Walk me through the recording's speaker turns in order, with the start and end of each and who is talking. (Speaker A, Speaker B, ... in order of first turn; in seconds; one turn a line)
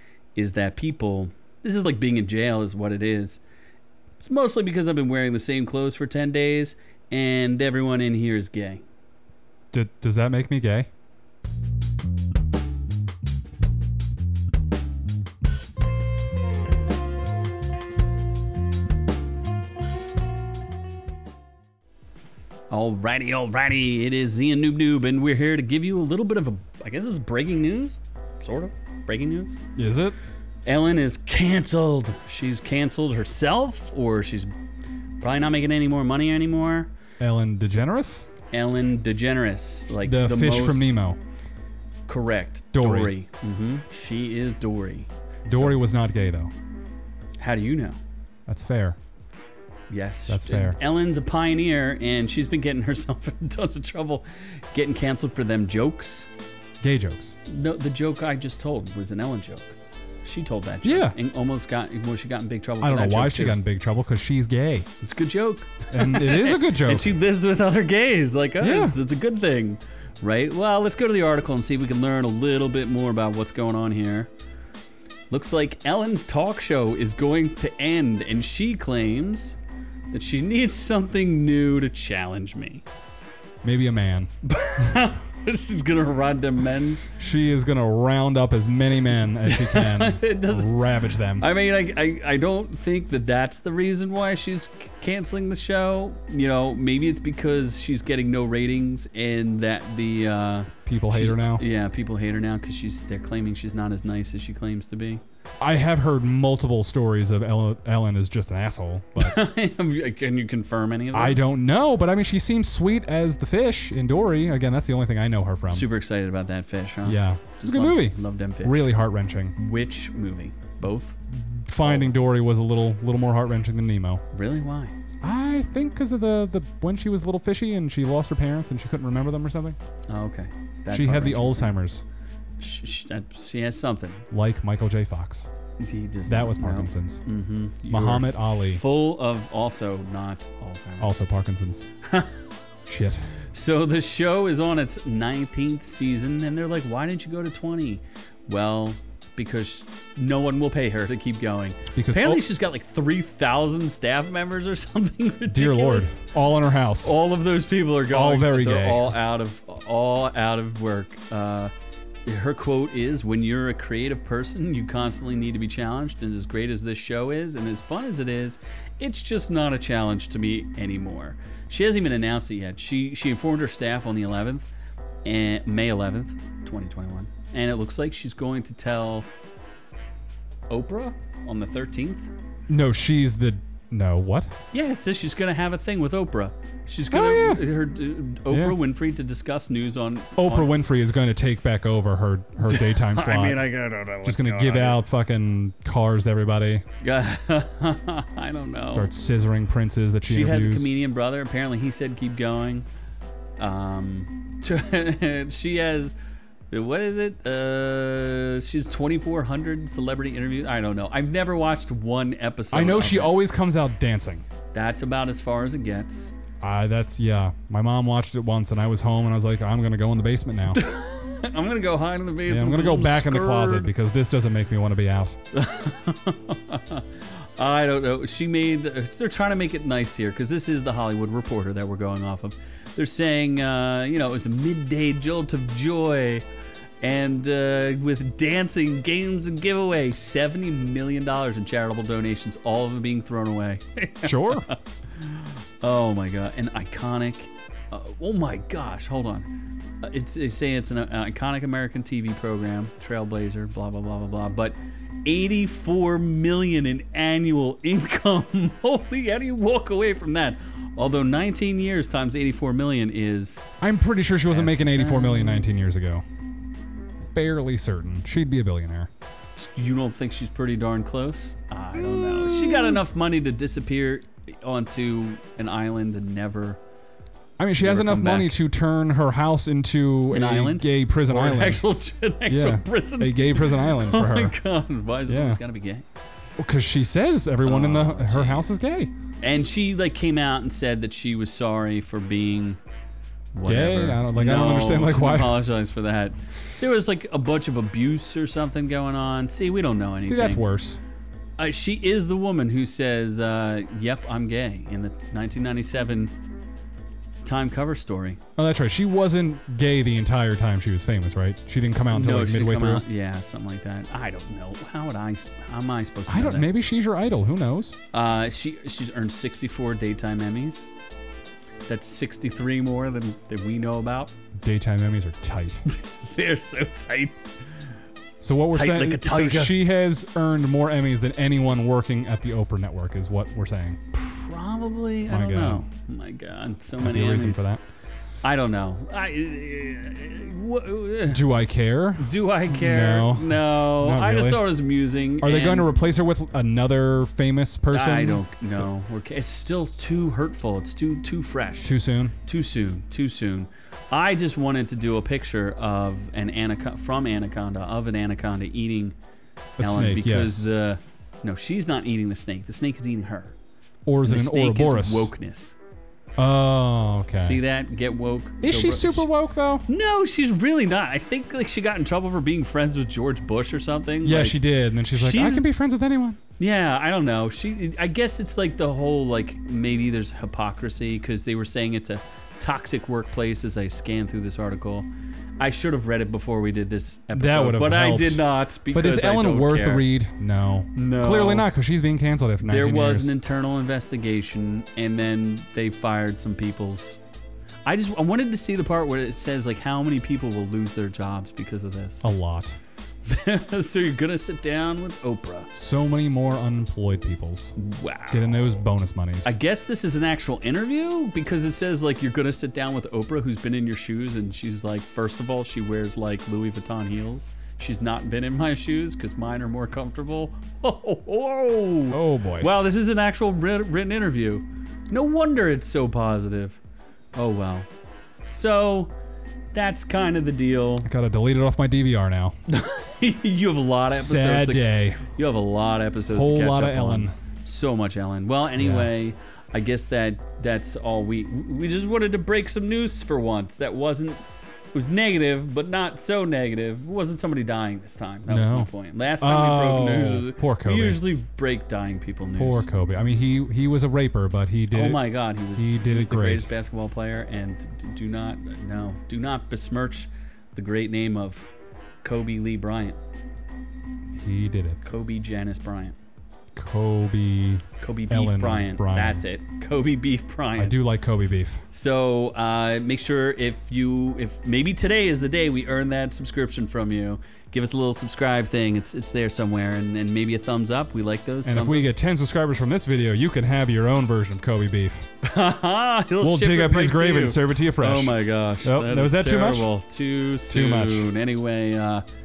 Speaker A: 0.3-3.4
Speaker A: 4.2-8.8
Speaker B: 9.7-10.9
Speaker A: 22.7-29.6
Speaker B: 29.8-30.1
Speaker A: 30.6-34.5
Speaker A: 35.2-36.9
Speaker B: 37.2-38.3
Speaker A: 38.5-40.9
Speaker B: 40.0-41.2
Speaker A: 42.1-45.8
Speaker B: 42.7-43.1
Speaker B: 45.5-46.5
Speaker A: 47.4-48.0
Speaker B: 48.5-49.0
Speaker A: 49.9-56.3
Speaker B: 50.3-50.8
Speaker B: 56.8-57.4
Speaker A: 57.5-63.6
Speaker B: 60.8-61.2
Speaker B: 62.8-64.9
Speaker A: 65.0-74.3
Speaker B: 65.9-67.1
Speaker B: 68.6-69.0
Speaker A: 75.3-79.6
Speaker A: 80.1-82.8
Speaker B: 83.6-84.3
Speaker A: 84.4-87.1
Speaker B: 87.2-91.5
Speaker A: 89.5-105.2
Speaker B: 100.9-101.6
Speaker B: 105.6-109.4
Speaker A: 109.2-111.5
Speaker B: 111.1-115.9
Speaker A: 115.7-118.9
Speaker B: 117.0-119.5
Speaker A: 119.6-122.1
Speaker B: 121.7-124.2
Speaker A: 124.3-124.9
Speaker B: 125.2-129.8
Speaker A: 130.1-131.8
Speaker B: 130.9-132.0
Speaker A: 132.6-134.2
Speaker B: 134.3-135.5
Speaker A: 135.8-141.2
Speaker B: 136.3-137.2
Speaker B: 137.9-138.8
Speaker B: 141.0-141.8
Speaker A: 142.0-142.4
Speaker B: 142.8-143.3
Speaker A: 143.4-156.2
Speaker B: 151.9-152.4
Speaker B: 155.5-157.1
Speaker A: 157.0-161.7
Speaker B: 158.1-159.1
Speaker A: 162.2-174.7
Speaker A: 175.2-179.3
Speaker A: 180.7-182.3
Speaker B: 182.7-184.5
Speaker A: 184.7-190.7
Speaker B: 187.1-187.7
Speaker B: 188.5-188.8
Speaker B: 190.4-193.7
Speaker A: 192.6-195.0
Speaker B: 194.2-196.8
Speaker A: 197.0-199.1
Speaker B: 198.9-200.9
Speaker A: 200.2-202.9
Speaker A: 203.6-206.2
Speaker A: 206.7-213.4
Speaker B: 212.7-214.4
Speaker A: 214.7-216.3
Speaker B: 216.6-220.8
Speaker A: 220.7-223.9
Speaker B: 222.5-225.3
Speaker A: 225.5-236.4
Speaker A: 237.0-249.5
Speaker B: 244.2-244.7
Speaker A: 250.0-263.6
Speaker B: 263.8-266.2
Speaker A: 264.5-265.7
Speaker B: 267.3-269.1
Speaker A: 269.6-276.8
Speaker B: 271.9-273.0
Speaker B: 277.6-281.8
Speaker A: 277.8-278.6
Speaker A: 280.3-286.1
Speaker B: 282.5-284.6
Speaker B: 285.3-285.6
Speaker B: 286.6-289.1
Speaker A: 287.6-288.8
Speaker A: 289.4-292.8
Speaker A: 293.5-300.7
Speaker B: 293.6-295.6
Speaker B: 300.2-301.0
Speaker A: 301.6-306.3
Speaker A: 307.4-308.4
Speaker B: 308.6-313.0
Speaker A: 312.1-316.7
Speaker B: 316.3-318.0
Speaker A: 318.1-320.9
Speaker A: 321.9-324.3
Speaker B: 324.6-325.8
Speaker A: 325.9-327.4
Speaker B: 328.4-334.0
Speaker A: 328.7-329.8
Speaker A: 334.1-337.7
Speaker B: 335.3-335.9
Speaker B: 337.0-337.8
Speaker A: 338.4-341.4
Speaker B: 341.3-344.6
Speaker A: 342.2-345.9
Speaker B: 345.4-348.4
Speaker A: 347.9-359.2
Speaker B: 351.9-352.4
Speaker B: 359.8-360.7
Speaker A: 359.8-363.6
Speaker B: 364.1-365.3
Speaker A: 364.2-365.8
Speaker B: 366.4-367.6
Speaker A: 367.4-369.3
Speaker B: 368.6-369.9
Speaker A: 369.9-375.7
Speaker B: 374.2-376.4
Speaker A: 376.6-390.1
Speaker B: 387.3-393.3
Speaker A: 390.9-391.7
Speaker A: 392.6-397.2
Speaker A: 397.9-402.2
Speaker B: 402.2-402.8
Speaker A: 403.2-405.7
Speaker B: 405.7-407.8
Speaker A: 407.8-408.8
Speaker B: 408.3-409.5
Speaker A: 409.4-426.8
Speaker B: 422.1-422.7
Speaker A: 427.4-427.9
Speaker A: 428.5-429.1
Speaker A: 429.7-431.1
Speaker B: 431.1-432.6
Speaker A: 432.7-444.4
Speaker B: 434.1-435.2
Speaker B: 436.3-437.3
Speaker B: 438.8-439.1
Speaker A: 444.9-452.9
Speaker B: 448.5-451.2
Speaker B: 452.6-456.7
Speaker A: 454.9-461.7
Speaker A: 462.2-463.2
Speaker B: 464.3-465.0
Speaker A: 465.0-466.2
Speaker B: 466.8-469.4
Speaker A: 468.0-471.0
Speaker B: 470.8-471.8
Speaker A: 471.9-482.1
Speaker B: 481.6-485.3
Speaker A: 485.4-492.2
Speaker B: 486.4-489.9
Speaker B: 490.7-491.3